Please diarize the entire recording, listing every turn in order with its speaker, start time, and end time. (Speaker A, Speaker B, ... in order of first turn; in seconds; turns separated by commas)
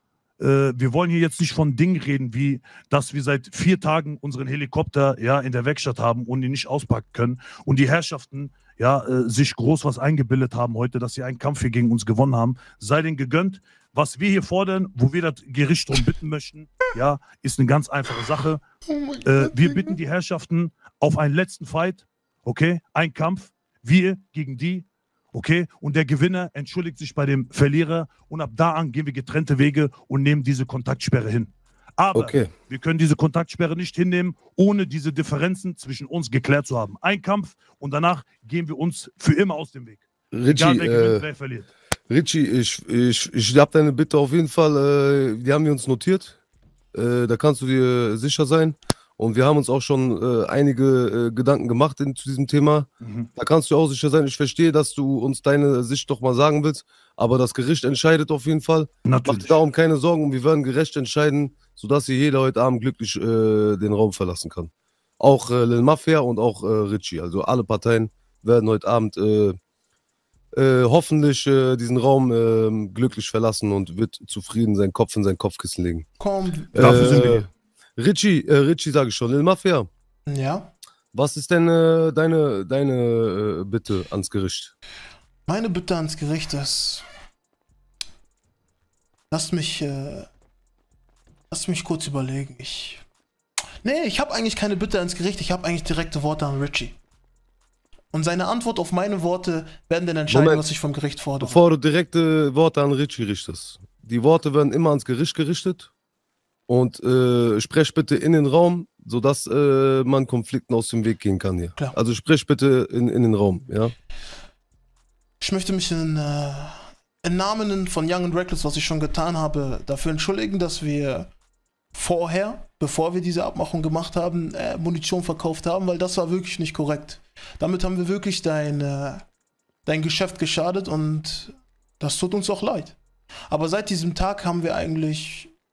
Speaker A: 0.4-18.6, Speaker B: 18.9-19.9, Speaker A: 19.2-41.7, Speaker C: 32.1-32.5, Speaker C: 40.3-41.2, Speaker C: 42.1-46.4, Speaker C: 46.9-69.6, Speaker A: 53.0-53.3, Speaker A: 59.0-59.6, Speaker C: 70.5-76.1, Speaker B: 76.2-77.2, Speaker C: 76.7-79.9, Speaker A: 76.8-77.5, Speaker B: 80.3-80.7, Speaker C: 81.1-84.7, Speaker B: 85.5-87.0, Speaker B: 89.3-90.3, Speaker B: 91.5-93.0, Speaker B: 93.8-97.0, Speaker B: 98.1-101.6, Speaker C: 100.3-100.7, Speaker C: 101.4-105.9, Speaker C: 106.7-113.9, Speaker B: 115.4-121.3, Speaker B: 121.9-129.2, Speaker B: 129.8-132.9, Speaker B: 133.5-135.5